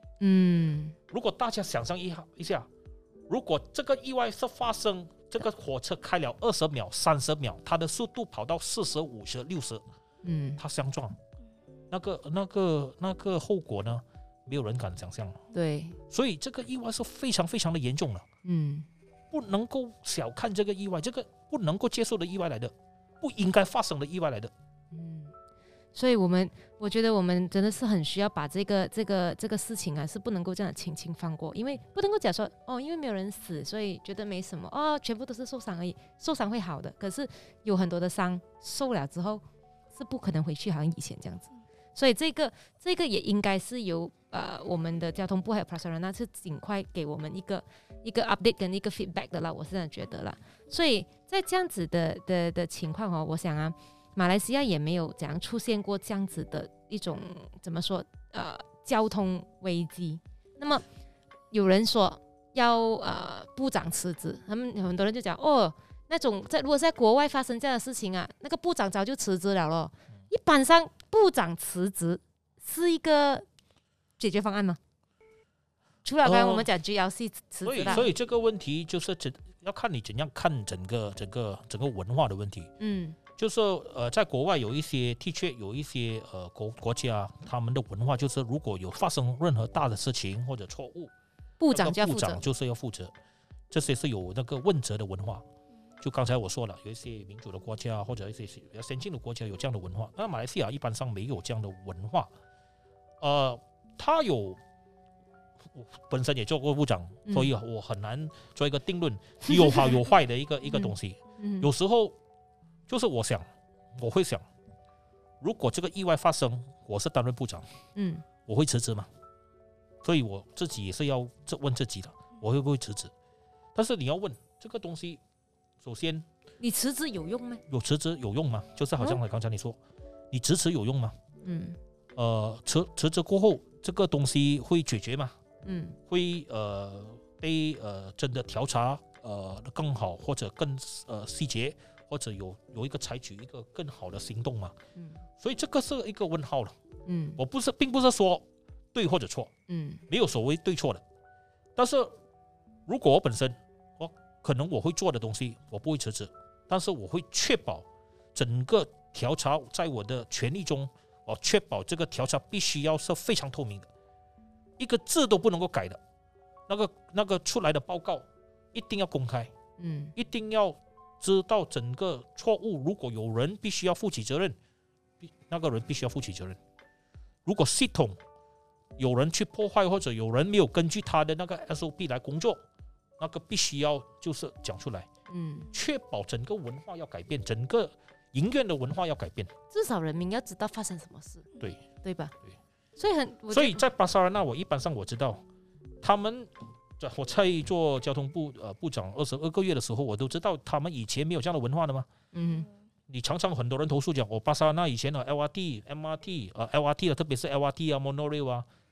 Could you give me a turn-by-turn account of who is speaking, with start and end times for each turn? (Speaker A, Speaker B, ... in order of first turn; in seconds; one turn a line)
Speaker A: 0.2-0.9
Speaker B: 1.1-2.7
Speaker B: 3.3-9.8
Speaker A: 10.2-10.6
Speaker B: 10.6-11.2
Speaker B: 11.9-15.4
Speaker A: 15.5-16.0
Speaker B: 16.1-18.2
Speaker A: 18.4-18.9
Speaker B: 19.3-24.5
Speaker A: 24.9-25.3
Speaker A: 25.9-39.4
Speaker A: 39.9-60.8
Speaker A: 61.5-73.4
Speaker A: 74.2-74.8
Speaker A: 76.0-78.1
Speaker B: 76.2-76.7
Speaker B: 77.6-82.7
Speaker A: 82.8-83.2
Speaker B: 83.4-91.1
Speaker A: 91.6-92.4
Speaker B: 91.7-93.1
Speaker B: 93.7-95.4
Speaker B: 96.0-102.3
Speaker B: 103.2-104.6
Speaker B: 105.7-112.1
Speaker A: 109.5-109.9
Speaker A: 110.7-111.7
Speaker B: 112.9-114.4
Speaker B: 115.4-117.7
Speaker A: 118.0-118.2
Speaker B: 118.4-119.1
Speaker B: 120.0-123.1
Speaker B: 123.7-125.2
Speaker B: 125.8-126.2
Speaker A: 126.6-127.6
Speaker B: 127.7-129.8
Speaker B: 130.3-131.1
Speaker A: 131.4-131.8
Speaker B: 132.2-135.4
Speaker A: 135.6-136.0
Speaker B: 136.1-144.8
Speaker B: 145.4-146.7
Speaker A: 147.1-147.4
Speaker B: 147.4-149.5
Speaker A: 149.7-150.0
Speaker B: 150.1-151.0
Speaker B: 151.8-152.1
Speaker B: 152.9-163.9
Speaker B: 164.8-166.0
Speaker B: 166.7-169.5
Speaker A: 169.8-170.1
Speaker B: 170.1-174.6
Speaker B: 175.2-176.6
Speaker B: 177.4-178.2
Speaker B: 179.0-182.6
Speaker B: 183.2-185.1
Speaker A: 185.3-185.7
Speaker B: 185.7-189.5
Speaker A: 189.7-192.3
Speaker A: 193.0-193.8
Speaker B: 193.5-195.4
Speaker B: 196.0-202.1
Speaker A: 202.3-202.7
Speaker B: 203.1-208.7